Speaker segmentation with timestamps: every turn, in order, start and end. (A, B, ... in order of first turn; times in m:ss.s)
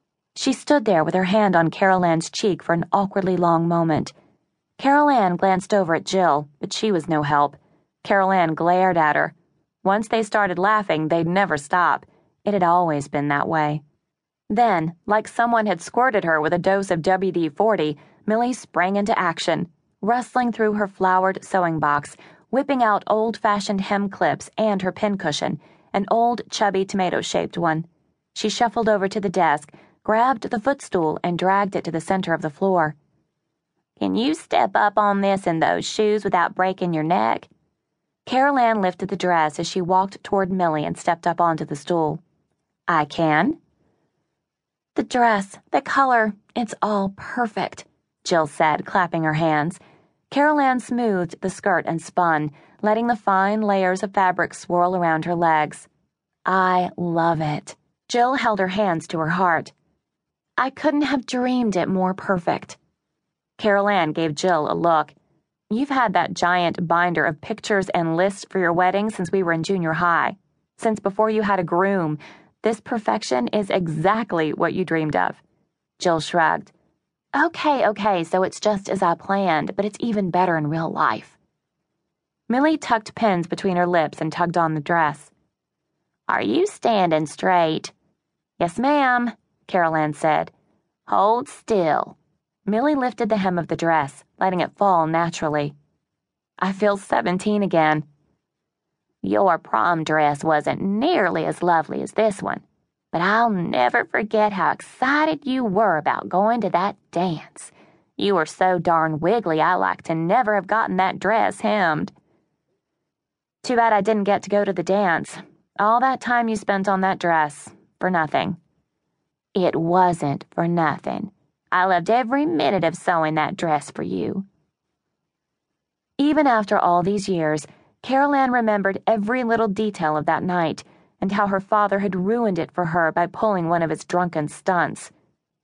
0:00.3-0:04.1 A
0:04.8-0:13.8 A
0:14.5-0:33.0 A
0:34.0-0:37.5 A
0:38.2-0:42.2 A
0:42.9-0:43.6 A
0:44.9-0:49.8 A
0:50.3-0:55.9 A
0:56.4-0:59.7 A
1:00.6-1:02.8 A
1:03.6-1:05.1 A
1:05.7-1:15.4 A
1:16.0-1:16.7 A
1:17.3-1:21.4 A
1:22.5-1:25.3 A
1:26.3-1:27.9 A
1:28.6-1:30.5 A
1:31.1-1:35.7 A
1:36.6-1:38.0 A
1:39.2-1:52.1 A
1:53.6-1:58.6 A
1:59.5-2:04.4 A
2:06.2-2:15.1 A